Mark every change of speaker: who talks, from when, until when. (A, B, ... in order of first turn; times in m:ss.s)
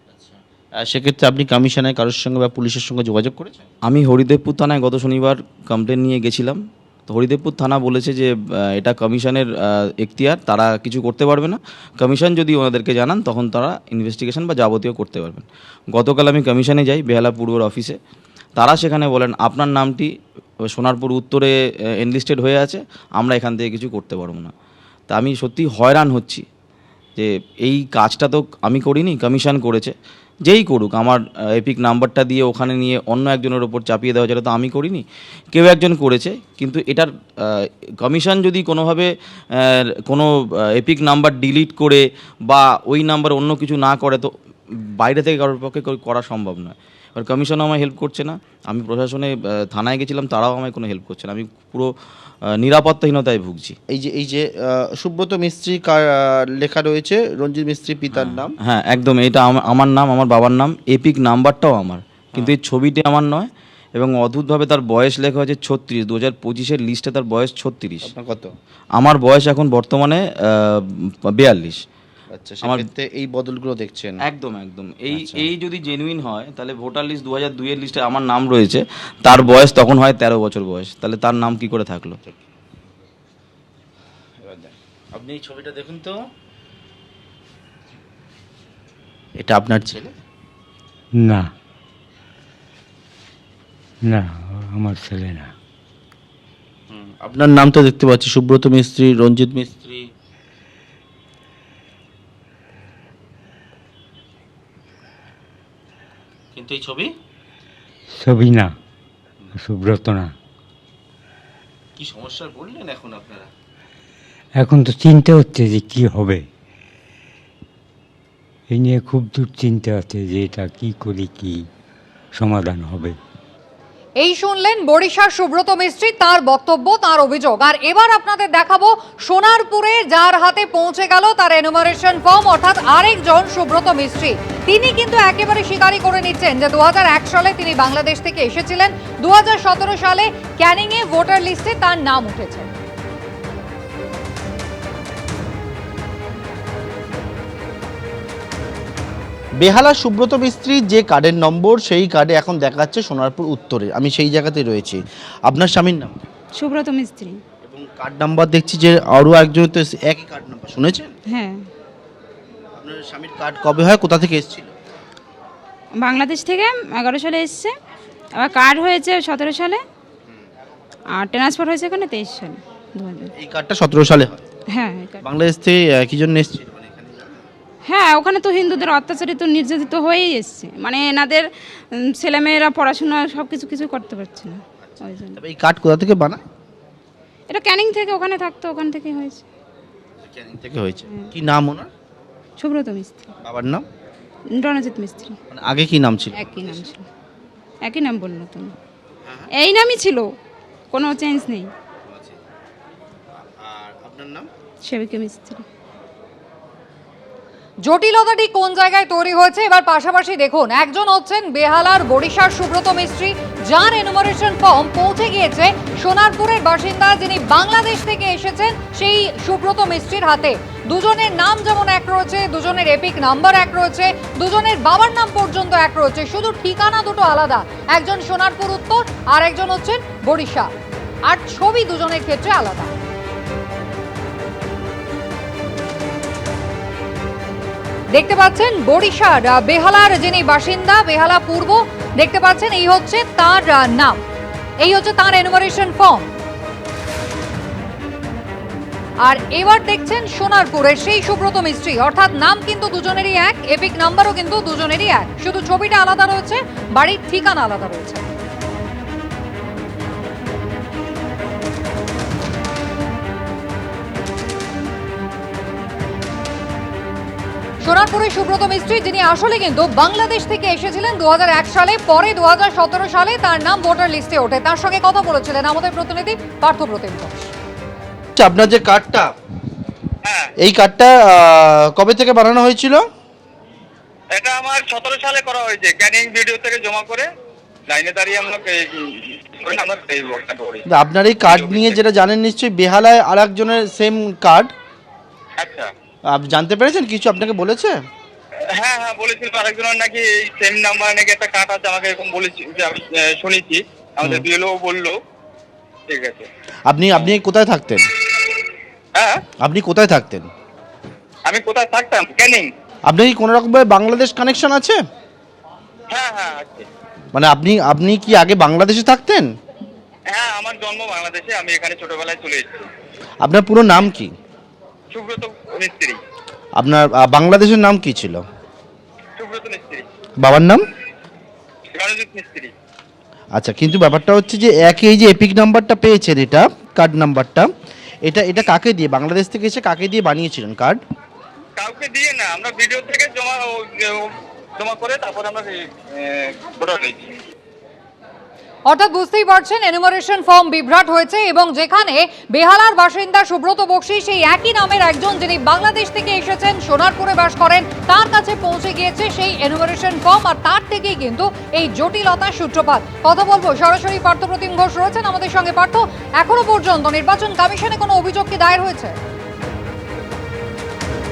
0:00.8-0:03.6 A
0:03.9-0:09.5 B
0:10.0-0:18.0 B
0:18.6-0:20.1 B
0:20.7-0:24.5 B
0:25.1-0:26.4 B
0:27.2-0:30.0 B
0:30.5-0:44.3 B
0:45.0-0:51.9 B
0:52.6-0:53.8 B
0:53.9-0:58.6 A
0:58.1-1:08.1 B
1:08.0-1:08.5 A
1:09.0-1:11.8 B
1:12.3-1:14.2 A
1:14.3-1:22.2 B
1:15.1-1:15.5 A
1:24.4-1:26.2 A
1:29.4-1:30.1 A
1:31.2-1:31.5 C
1:34.0-1:35.5 C
1:36.9-1:40.0 A
1:46.6-1:47.1 A
1:48.2-1:48.7 C
1:49.6-1:50.3 C
1:52.0-1:53.5 A
1:54.6-1:56.4 C
1:58.7-2:01.6 C
2:02.4-2:03.2 C
2:04.2-2:22.7 D
2:29.6-2:36.2 A
2:36.6-2:37.4 E
2:37.6-2:41.1 A
2:41.3-2:41.6 E
2:42.8-2:44.7 A
2:46.0-2:47.7 E
2:48.4-2:49.8 E
2:51.1-2:53.3 E
2:53.4-2:54.4 A
2:54.7-2:55.2 E
2:55.2-2:57.4 A
2:57.8-3:05.4 E
3:04.9-3:06.4 A
3:07.5-3:09.5 E
3:10.3-3:11.9 A
3:12.6-3:13.3 E
3:13.4-3:13.8 A
3:14.6-3:15.4 E
3:15.5-3:16.9 A
3:16.4-3:17.1 E
3:17.8-3:18.8 E
3:19.6-3:20.3 E
3:20.9-3:21.7 E
3:22.1-3:22.4 A
3:23.4-3:24.5 A
3:24.8-3:25.6 E
3:27.8-3:50.7 D
3:51.3-3:52.9 D
3:58.1-4:04.2 D
4:04.8-4:06.3 D
4:09.2-4:18.2 D
4:27.8-4:37.5 D
4:38.4-4:39.3 A
4:40.6-4:43.0 A
4:44.4-4:47.2 F
4:48.0-4:48.7 F
4:49.6-4:50.8 F
4:50.9-4:54.7 A
4:56.3-4:58.0 A
4:58.8-5:03.8 F
5:04.4-5:05.1 F
5:06.1-5:06.5 F
5:06.9-5:08.1 A
5:09.6-5:10.5 A
5:11.5-5:12.7 F
5:13.1-5:15.0 A
5:16.1-5:16.8 F
5:17.3-5:19.5 A
5:20.3-5:22.9 F
5:23.4-5:24.3 A
5:25.2-5:26.2 F
5:26.8-5:28.4 A
5:29.4-5:30.0 F
5:30.4-5:30.8 A
5:32.0-5:32.7 F
5:33.6-5:37.7 A
5:38.2-5:41.0 A
5:41.8-5:43.6 F
5:44.8-5:45.8 F
5:46.4-5:47.3 F
5:48.9-6:09.2 D